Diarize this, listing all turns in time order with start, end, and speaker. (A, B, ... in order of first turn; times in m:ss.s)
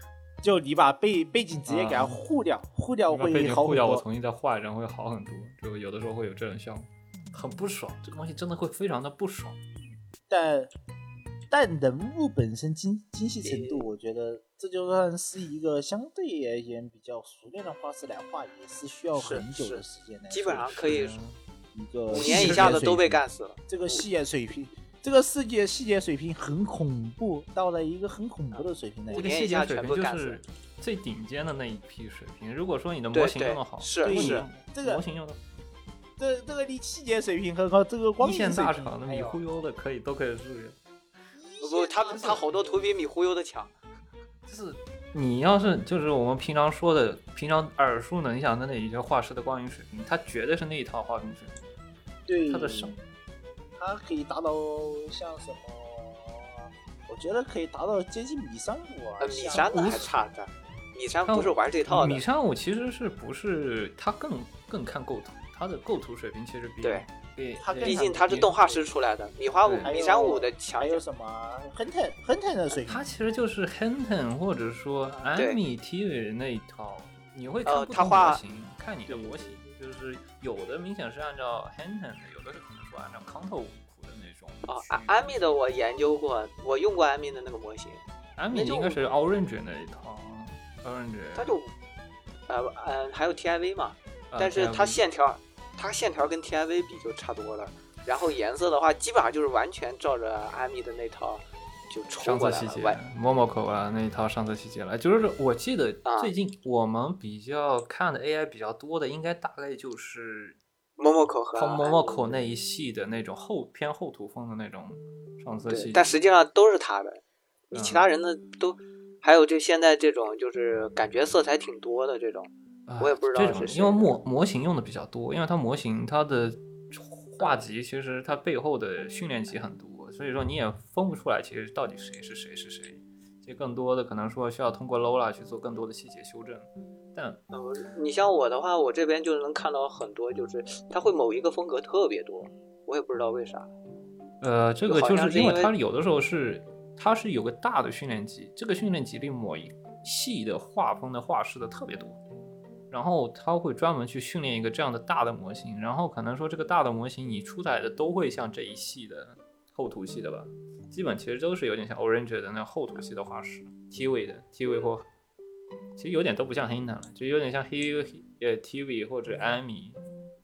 0:00.4-0:04.0 A
0:01.7-0:02.2 B
0:03.1-0:09.6 B
0:10.3-0:10.7 A
0:11.5-0:20.6 A
0:13.4-0:13.9 C
0:19.2-0:21.2 C
0:20.5-0:21.4 B
0:21.7-0:29.3 A
0:22.1-0:22.8 B
0:22.1-0:24.0 C
0:28.5-0:30.4 C
0:29.1-0:35.4 B
0:33.1-0:34.5 C
0:34.0-0:35.0 A
0:36.2-0:39.4 A
0:38.2-0:40.8 B
0:41.3-0:42.9 A
0:41.6-0:43.7 C
0:44.5-0:51.6 B
0:52.2-0:53.0 A
0:52.5-0:52.9 B
0:53.8-1:00.1 A
0:59.2-1:02.2 C
0:59.5-1:00.1 B
1:01.3-1:08.6 B
1:07.6-1:08.8 A
1:07.8-1:11.0 C
1:09.6-1:09.9 B
1:09.8-1:13.1 A
1:12.9-1:25.5 B
1:15.1-1:15.6 C
1:17.6-1:18.4 C
1:19.1-1:19.6 C
1:24.6-1:29.0 C
1:28.4-1:31.6 B
1:31.4-1:31.7 C
1:32.5-1:43.0 C
1:34.3-1:35.0 B
1:42.2-1:50.6 B
1:46.0-1:46.3 C
1:51.0-1:52.4 C
1:51.5-1:56.1 B
1:55.7-2:04.2 C
1:57.7-1:58.1 B
2:02.9-2:17.4 B
2:07.4-2:07.7 C
2:17.5-2:23.7 C
2:24.4-2:32.2 B
2:24.9-2:25.7 C
2:32.9-2:45.0 B
2:46.0-2:50.0 B